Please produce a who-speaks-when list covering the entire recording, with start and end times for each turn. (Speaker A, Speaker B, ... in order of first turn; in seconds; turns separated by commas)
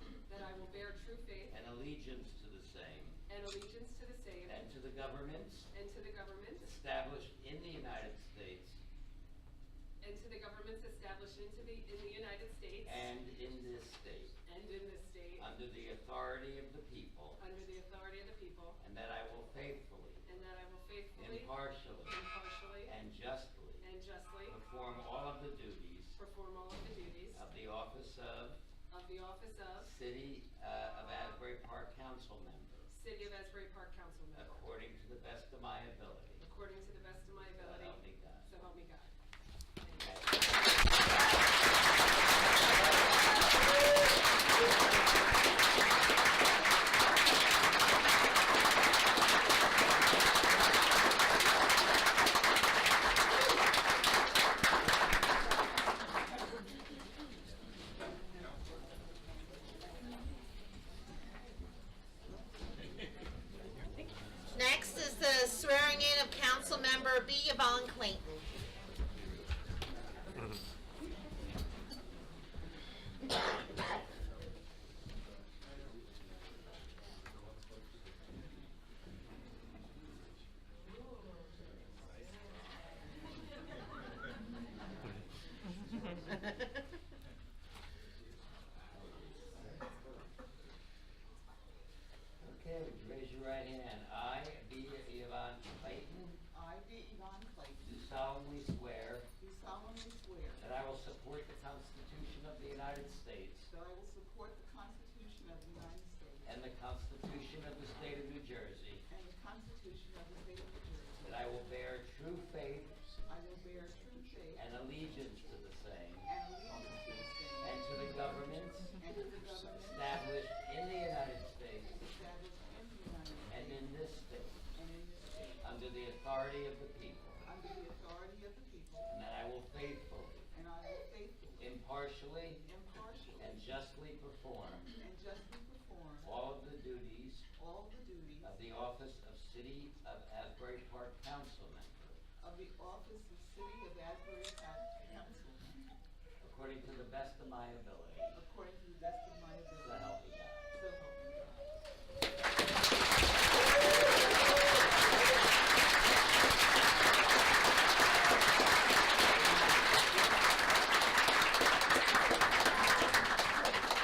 Speaker A: 0.3-1.6, Speaker B: 1.5-3.2, Speaker A: 3.3-4.6, Speaker B: 4.5-5.7, Speaker A: 5.7-6.7, Speaker B: 6.6-8.8, Speaker A: 10.0-13.7, Speaker B: 12.8-14.4, Speaker A: 14.4-15.5, Speaker B: 15.4-17.4, Speaker A: 17.4-18.8, Speaker B: 18.8-20.3, Speaker A: 20.3-22.9, Speaker B: 21.2-22.2, Speaker B: 22.8-23.9, Speaker A: 23.8-24.6, Speaker B: 24.5-26.2, Speaker A: 26.2-27.5, Speaker B: 27.3-28.6, Speaker A: 28.9-29.9, Speaker B: 29.8-32.9, Speaker A: 32.9-34.6, Speaker B: 34.4-36.5, Speaker A: 36.4-39.1, Speaker B: 37.6-38.5, Speaker A: 39.8-40.3, Speaker B: 40.0-40.8, Speaker C: 64.5-68.5, Speaker B: 88.9-89.8, Speaker B: 92.4-96.4, Speaker D: 96.5-97.9, Speaker B: 97.8-99.3, Speaker D: 99.4-100.6, Speaker B: 100.6-103.7, Speaker D: 103.7-106.5, Speaker B: 106.5-109.1, Speaker D: 109.1-111.5, Speaker B: 111.2-113.0, Speaker D: 113.3-114.6, Speaker B: 114.5-117.0, Speaker D: 116.3-117.9, Speaker B: 117.6-122.1, Speaker D: 119.0-120.3, Speaker D: 122.0-123.8, Speaker B: 123.5-124.6, Speaker D: 124.7-125.7, Speaker B: 125.6-127.5, Speaker D: 127.4-129.1, Speaker B: 129.1-130.5, Speaker D: 130.5-131.7, Speaker B: 131.6-132.7, Speaker D: 132.6-133.7, Speaker B: 133.4-135.0, Speaker D: 135.0-136.3, Speaker B: 136.2-137.5, Speaker D: 137.6-138.6, Speaker B: 138.4-142.2, Speaker D: 142.4-146.0, Speaker B: 146.4-148.4, Speaker D: 148.3-151.9, Speaker B: 149.8-150.8, Speaker B: 159.4-160.0